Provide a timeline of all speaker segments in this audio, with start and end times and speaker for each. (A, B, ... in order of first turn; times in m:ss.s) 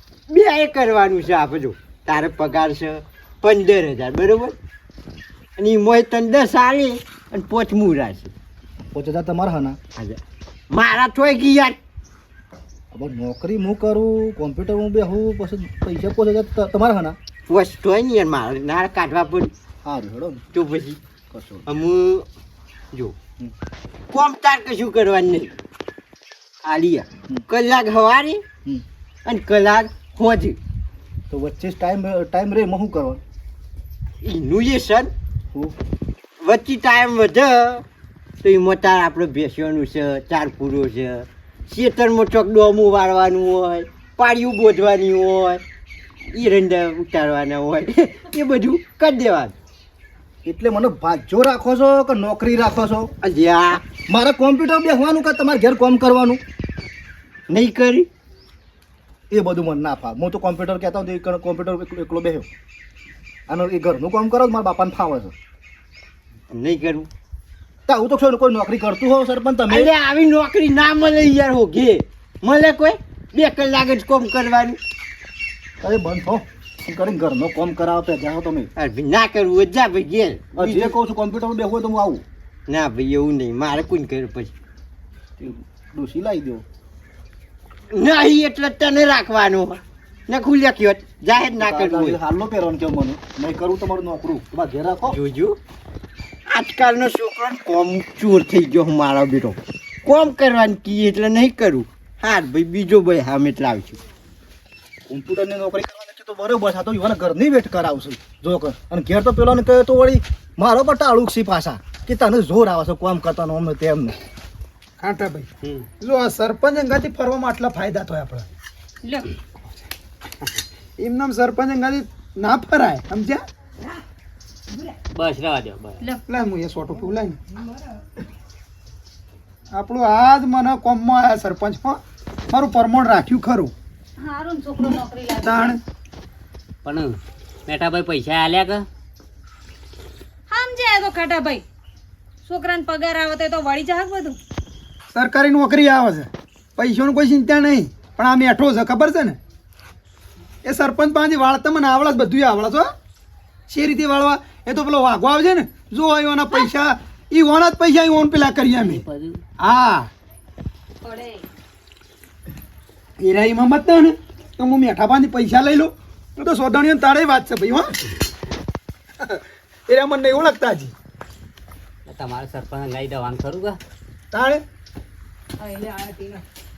0:00.3-0:04.6 A
0:05.6-0:08.3 A
0:08.9-0:09.8 B
0:10.7-0:11.8 A
0:12.9-0:17.2 B
0:17.5-0:19.5 A
0:19.8-0:20.4 B
0:20.5-0:21.0 A
0:21.3-0:21.6 B
0:21.7-0:22.3 A
0:24.1-0:25.5 A
0:26.6-0:28.4 A
0:29.2-0:30.6 A
0:31.3-0:33.2 B
0:34.2-0:35.1 A
0:36.4-0:37.8 A
0:38.4-0:45.6 A
0:46.3-0:49.5 A
0:50.4-0:53.1 B
0:53.2-0:53.8 A
0:54.1-0:56.4 B
0:57.5-0:58.1 A
0:59.3-1:02.5 B
1:03.5-1:05.3 B
1:06.5-1:07.1 A
1:07.9-1:09.9 B
1:09.7-1:14.8 A
1:15.8-1:18.7 B
1:18.8-1:20.9 A
1:20.6-1:22.2 B
1:22.7-1:24.5 A
1:25.4-1:26.6 B
1:27.9-1:32.2 A
1:31.6-1:35.2 B
1:35.1-1:35.6 A
1:36.5-1:44.0 A
1:45.1-1:54.2 B
1:55.0-1:55.5 C
1:56.0-1:58.5 C
1:59.0-1:59.3 D
2:01.0-2:03.4 C
2:05.1-2:06.0 E
2:06.3-2:07.4 C
2:09.7-2:13.7 C
2:14.2-2:15.8 D
2:15.4-2:15.8 C
2:16.8-2:18.8 E
2:20.5-2:21.6 D
2:22.4-2:24.4 D
2:25.1-2:29.4 C
2:30.6-2:32.9 C
2:33.7-2:39.0 C
2:38.8-2:39.4 E
2:39.6-2:40.1 C
2:41.0-2:41.4 D
2:43.2-2:47.9 C
2:49.2-2:50.9 C
2:52.0-2:53.8 E
2:54.3-2:54.6 C
2:55.6-2:56.4 D